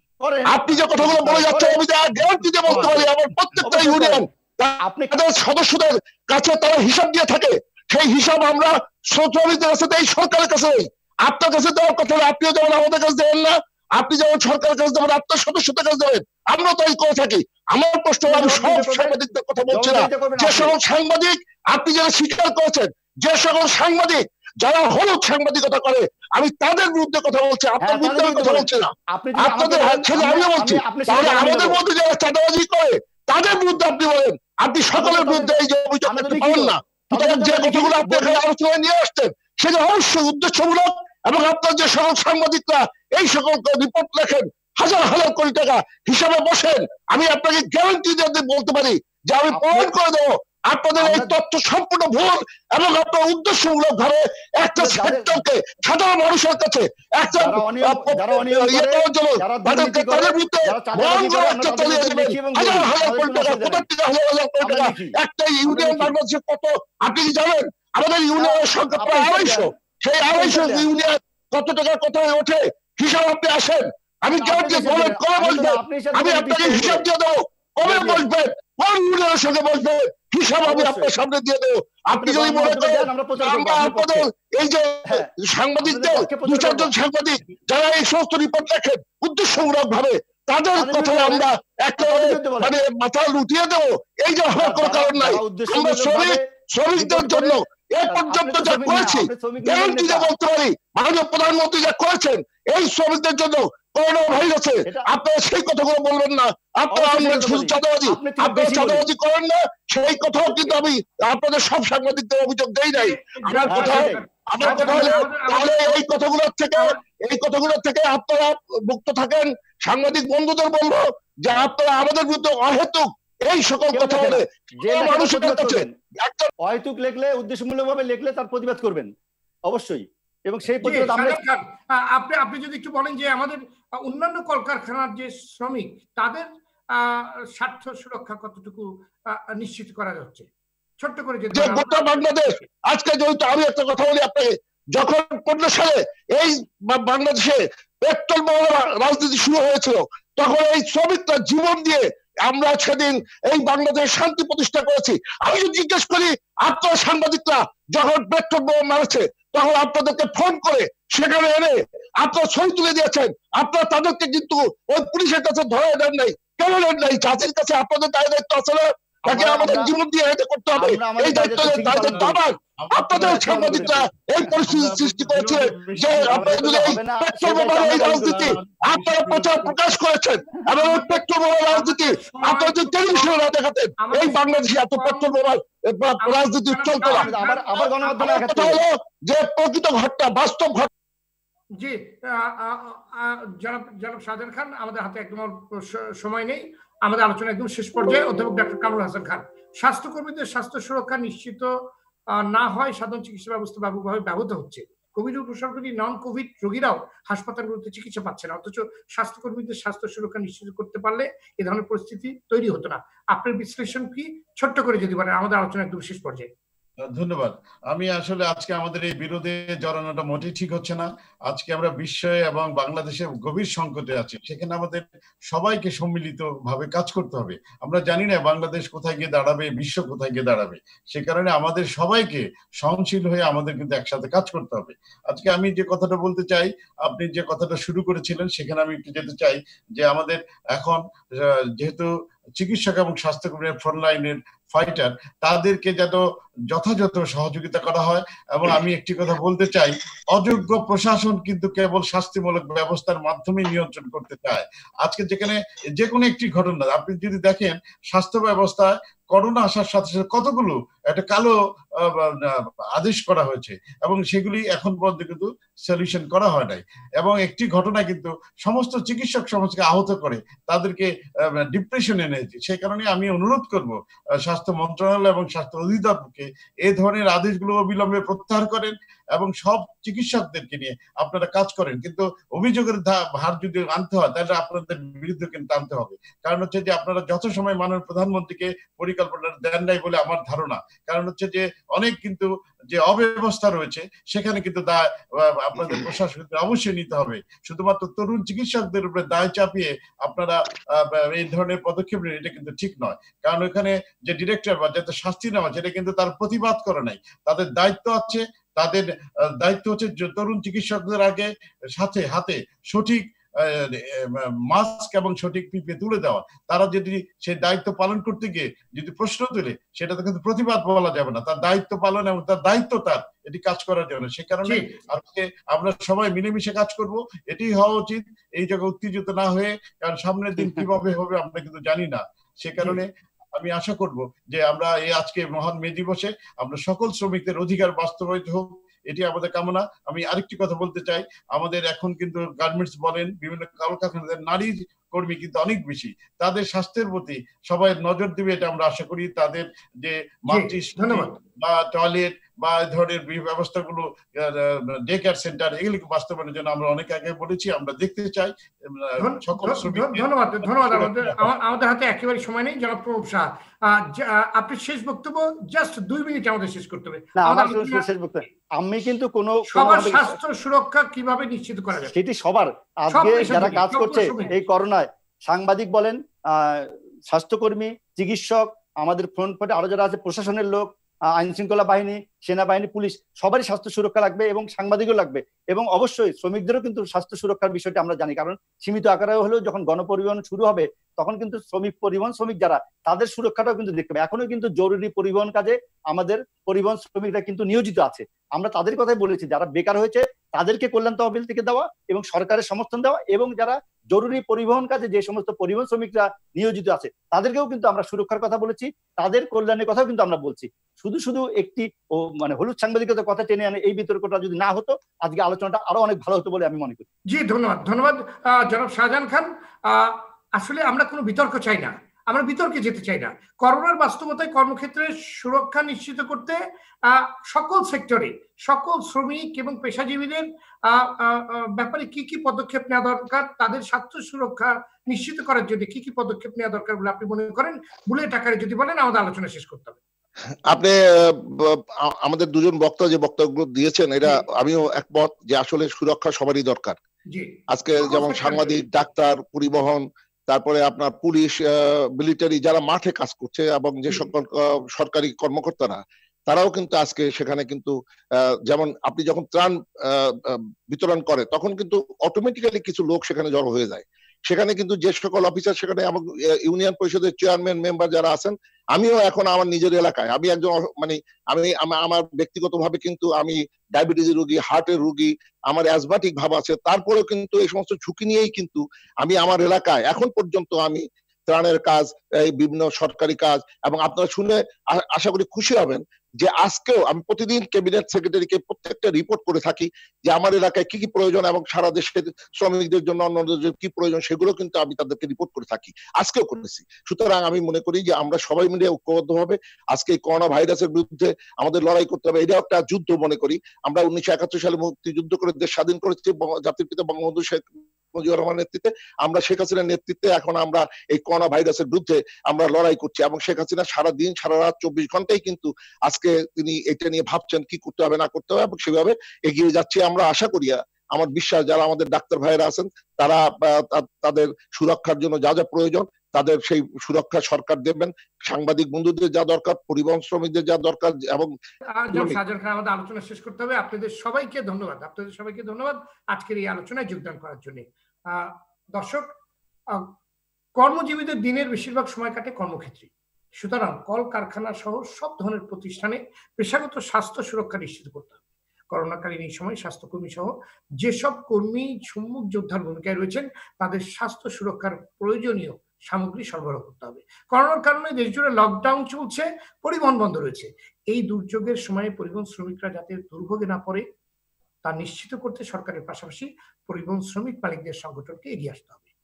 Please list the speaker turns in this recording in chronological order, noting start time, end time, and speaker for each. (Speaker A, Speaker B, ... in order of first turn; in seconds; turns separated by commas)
Speaker A: 0.2-1.8, Speaker B: 0.5-126.5, Speaker C: 2.7-3.0, Speaker A: 2.7-3.0, Speaker A: 3.6-4.2, Speaker A: 4.8-5.1, Speaker A: 18.3-20.8, Speaker A: 27.8-31.8, Speaker A: 35.0-38.4, Speaker A: 49.5-49.9, Speaker A: 51.0-51.4, Speaker A: 54.6-55.4, Speaker A: 57.4-63.9, Speaker A: 64.6-66.1, Speaker A: 68.3-69.7, Speaker A: 70.3-70.9, Speaker A: 74.4-77.1, Speaker A: 77.8-78.2, Speaker A: 80.7-81.1, Speaker A: 82.1-84.3, Speaker A: 85.8-86.9, Speaker A: 90.8-92.7, Speaker A: 94.6-96.4, Speaker A: 97.0-100.3, Speaker A: 106.9-109.1, Speaker D: 112.9-116.0, Speaker A: 113.7-114.9, Speaker A: 123.9-125.9, Speaker A: 126.6-129.1, Speaker A: 129.7-131.4, Speaker D: 130.8-140.4, Speaker D: 141.0-142.6, Speaker B: 141.5-187.3, Speaker A: 169.3-169.9, Speaker A: 170.8-172.4, Speaker C: 172.2-176.6, Speaker A: 173.1-174.0, Speaker A: 176.0-178.6, Speaker C: 178.0-179.7, Speaker D: 180.7-183.3, Speaker D: 184.0-185.3, Speaker D: 186.2-188.3, Speaker A: 187.0-188.8, Speaker B: 188.0-190.9, Speaker D: 191.8-201.7, Speaker D: 202.3-216.5, Speaker C: 217.1-241.0, Speaker C: 241.8-242.1, Speaker C: 242.6-271.1, Speaker C: 271.7-309.1, Speaker C: 309.6-361.5, Speaker A: 330.6-330.9, Speaker D: 350.5-351.3, Speaker D: 359.2-368.1, Speaker A: 367.4-370.4, Speaker D: 369.7-372.1, Speaker A: 372.1-417.0, Speaker D: 373.1-374.5, Speaker D: 417.3-440.0, Speaker B: 440.7-447.0, Speaker D: 447.3-448.9, Speaker B: 447.7-457.9, Speaker B: 458.7-531.5, Speaker D: 531.9-539.3, Speaker B: 532.1-532.4, Speaker D: 540.8-548.3, Speaker D: 548.9-564.0, Speaker D: 564.8-569.0